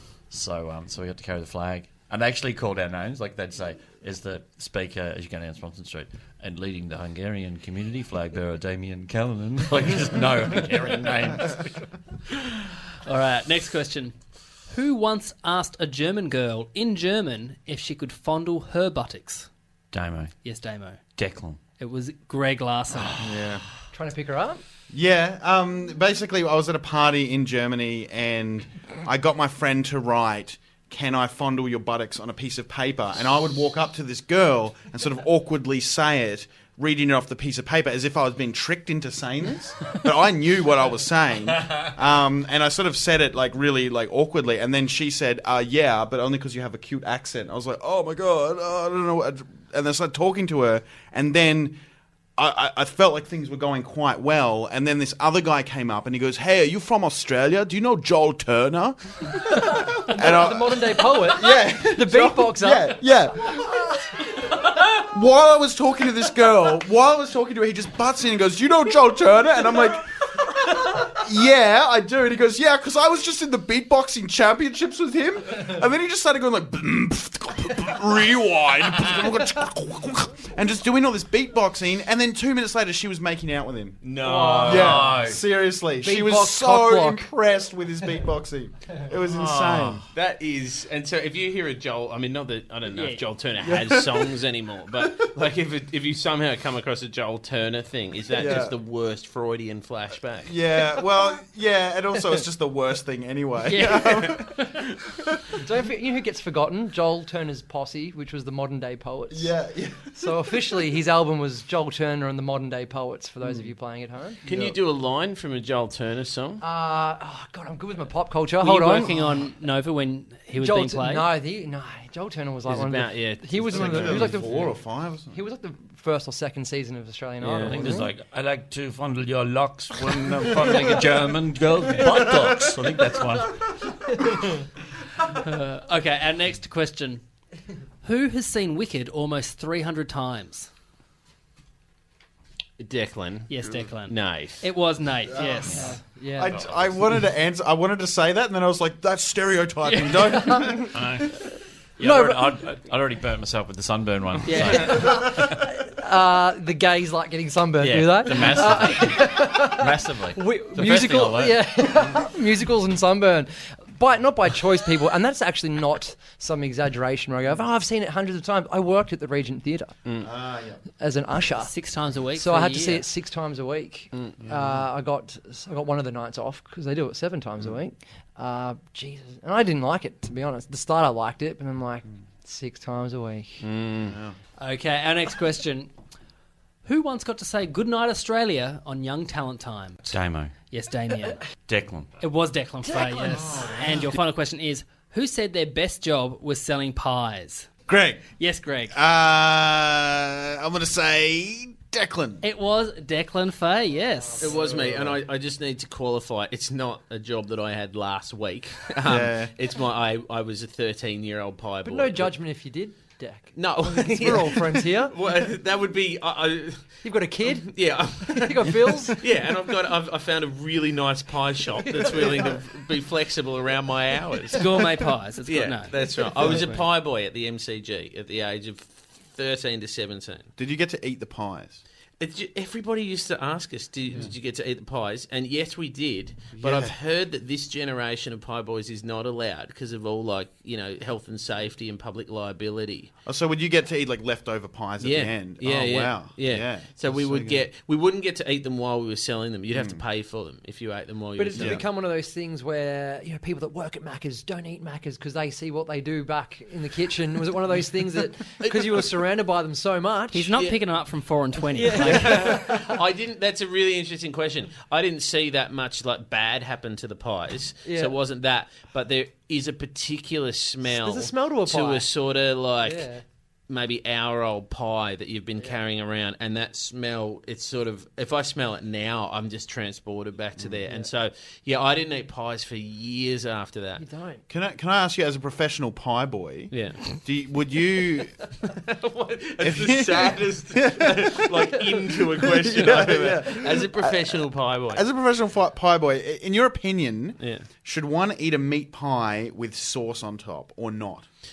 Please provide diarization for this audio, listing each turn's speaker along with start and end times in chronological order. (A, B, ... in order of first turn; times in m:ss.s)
0:00.3-0:11.8 A
0:13.0-0:14.1 B
0:14.7-0:19.5 B
0:19.9-0:20.3 A
0:20.4-0:21.0 B
0:21.2-0:21.6 A
0:21.8-0:23.2 B
0:23.2-0:23.6 C
0:23.9-0:24.6 D
0:24.9-0:51.8 C
0:52.4-1:10.1 C
0:59.5-1:03.1 D
1:10.7-1:24.1 C
1:24.0-1:25.1 E
1:24.2-1:25.0 D
1:24.4-1:25.4 A
1:24.6-1:30.0 C
1:26.0-1:27.3 D
1:29.6-1:30.0 A
1:30.1-1:40.5 E
1:32.9-1:33.2 B
1:33.7-1:34.2 C
1:38.3-1:38.7 C
1:40.4-1:45.5 C
1:43.7-1:44.7 B
1:45.5-1:49.5 D
1:49.3-1:50.1 C
1:50.1-1:54.4 D
1:54.4-1:54.8 C
1:54.4-1:56.6 E
1:56.6-1:59.4 D
1:58.6-2:01.2 B
2:00.6-2:04.8 D
2:02.7-2:04.4 E
2:03.7-2:05.4 C
2:05.3-2:08.1 D
2:07.4-2:07.8 E
2:07.5-2:13.6 A
2:10.0-2:10.8 C
2:12.0-2:12.7 C
2:15.4-2:17.2 B
2:18.0-2:20.7 B
2:22.8-2:24.6 E
2:23.5-2:26.0 B
2:25.3-2:31.2 C
2:25.6-2:26.0 A
2:25.7-2:26.5 D
2:26.5-2:27.0 A
2:29.8-2:30.6 B
2:30.5-2:30.9 D
2:30.9-2:31.3 A
2:32.0-2:35.6 A
2:32.0-2:32.6 D
2:34.4-2:34.9 B
2:34.7-2:50.0 D
2:37.8-2:41.6 A
2:50.2-2:50.8 C
2:51.0-2:51.7 D
2:51.6-2:53.0 B
2:52.4-3:03.6 D
2:54.4-2:54.8 C
3:03.6-3:04.2 E
3:04.1-3:04.4 C
3:04.6-3:05.9 B
3:06.8-3:11.4 B
3:10.1-3:10.5 A
3:11.7-3:12.1 A
3:12.2-3:17.7 B
3:12.9-3:13.7 D
3:13.2-3:14.0 C
3:17.9-3:18.2 C
3:18.4-3:19.0 B
3:18.9-3:22.4 C
3:22.4-3:24.6 B
3:24.4-3:32.3 E
3:24.5-3:25.2 C
3:29.0-3:29.5 C
3:31.8-3:35.1 D
3:33.5-3:44.7 E
3:37.0-3:39.2 D
3:41.8-3:42.6 D
3:44.5-3:45.9 B
3:45.4-3:50.5 E
3:46.5-3:46.8 B
3:50.6-3:51.8 C
3:52.2-4:03.1 E
3:56.5-3:56.9 C
4:03.2-4:07.6 C
4:05.0-4:11.8 E
4:09.7-4:10.0 C
4:11.4-4:20.5 D
4:11.5-4:11.8 C
4:18.6-4:19.2 E
4:20.3-4:22.5 B
4:20.5-4:20.8 E
4:21.7-4:23.0 D
4:21.9-4:33.1 E
4:27.8-4:28.1 D
4:30.8-4:32.0 D
4:32.8-4:33.2 D
4:33.7-4:44.0 E
4:44.0-4:44.4 D
4:44.5-4:48.5 C
4:46.7-4:47.1 E
4:48.7-4:55.0 E
4:49.6-4:51.6 C
4:51.9-4:52.2 D
4:52.4-5:01.2 C
4:57.4-4:57.7 E